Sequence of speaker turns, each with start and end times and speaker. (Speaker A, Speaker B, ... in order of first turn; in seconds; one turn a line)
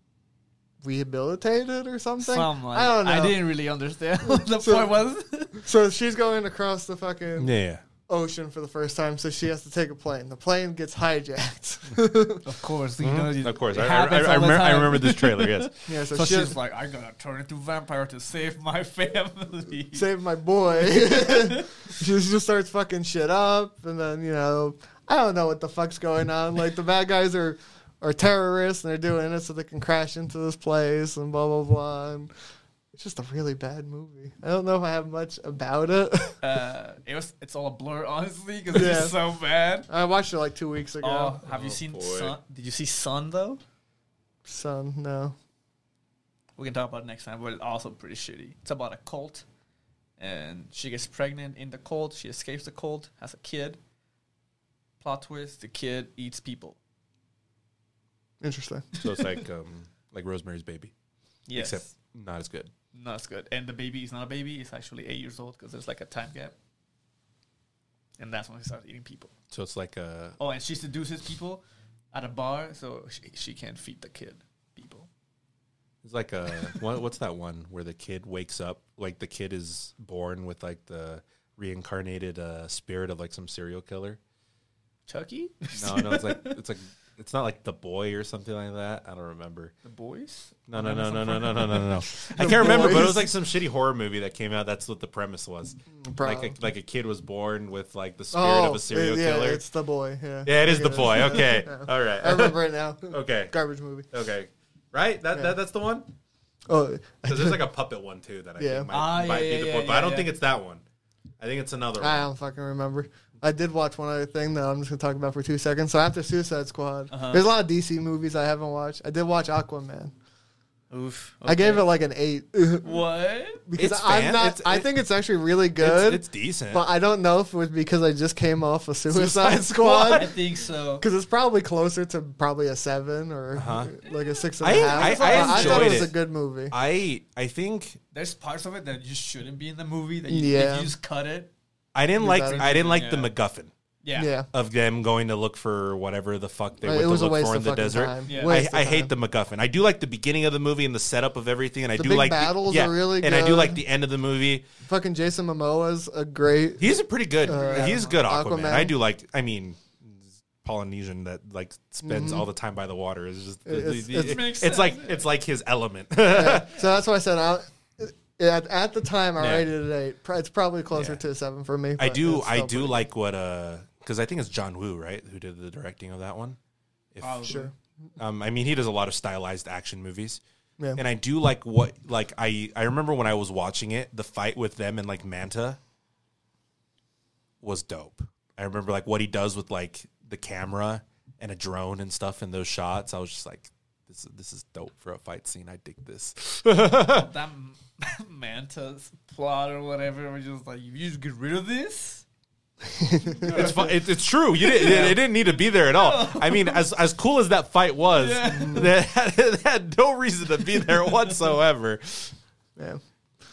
Speaker A: 0.8-3.4
Speaker B: 2.2-5.7
Speaker A: 4.2-5.0
Speaker A: 5.5-7.5
Speaker C: 7.4-7.8
Speaker A: 8.1-12.4
Speaker B: 12.4-20.1
Speaker C: 13.0-15.7
Speaker A: 15.9-16.6
Speaker A: 19.9-32.3
Speaker B: 20.8-21.8
Speaker A: 32.9-36.4
Speaker B: 36.4-39.9
Speaker A: 38.7-39.1
Speaker A: 39.9-41.4
Speaker B: 41.0-43.6
Speaker C: 41.4-42.4
Speaker A: 44.5-45.4
Speaker B: 46.6-49.4
Speaker B: 50.2-53.8
Speaker B: 55.0-56.8
Speaker A: 58.4-58.9
Speaker B: 59.0-59.4
Speaker C: 59.0-60.9
Speaker B: 61.5-61.9
Speaker C: 61.5-62.7
Speaker B: 62.9-66.5
Speaker B: 68.2-69.3
Speaker C: 69.5-70.4
Speaker B: 70.4-75.1
Speaker C: 76.0-84.2
Speaker B: 85.1-86.6
Speaker C: 85.7-89.7
Speaker B: 89.8-93.1
Speaker C: 90.7-99.6
Speaker A: 92.3-93.3
Speaker A: 95.9-96.6
Speaker A: 98.3-104.1
Speaker C: 100.4-103.5
Speaker C: 104.1-106.1
Speaker A: 106.7-107.6
Speaker C: 107.3-110.8
Speaker A: 108.6-108.9
Speaker B: 108.9-110.3
Speaker C: 111.4-112.3
Speaker A: 112.0-120.1
Speaker B: 117.1-117.5
Speaker B: 120.9-121.9
Speaker A: 121.4-123.0
Speaker B: 122.8-123.6
Speaker A: 123.6-130.3
Speaker C: 123.8-124.9
Speaker C: 125.8-126.8
Speaker C: 129.1-130.3
Speaker B: 130.0-131.1
Speaker A: 131.0-136.7
Speaker C: 133.6-133.9
Speaker B: 134.1-136.1
Speaker C: 134.6-136.2
Speaker C: 136.7-138.0
Speaker B: 138.1-141.5
Speaker A: 140.3-140.9
Speaker C: 141.9-143.7
Speaker A: 142.2-142.7
Speaker B: 142.4-143.3
Speaker B: 144.0-144.3
Speaker A: 144.2-144.5
Speaker C: 144.5-154.7
Speaker A: 146.8-149.1
Speaker B: 148.3-148.6
Speaker A: 152.0-153.8
Speaker A: 154.8-156.9
Speaker C: 156.8-166.8
Speaker A: 157.4-158.9
Speaker B: 157.5-158.0
Speaker A: 162.0-162.5
Speaker A: 163.7-164.4
Speaker B: 164.1-165.3
Speaker A: 166.3-173.0
Speaker C: 169.4-169.7
Speaker C: 170.9-171.2
Speaker C: 172.0-176.6
Speaker C: 177.1-177.6
Speaker B: 177.2-177.7
Speaker A: 177.4-177.7
Speaker C: 178.2-180.4
Speaker C: 180.9-185.8
Speaker C: 187.6-197.3
Speaker B: 197.0-202.2
Speaker A: 202.9-203.7
Speaker B: 203.4-204.0
Speaker C: 203.4-212.4
Speaker B: 204.5-206.8
Speaker B: 208.1-208.9
Speaker A: 208.5-208.9
Speaker B: 210.8-211.3
Speaker A: 212.8-213.0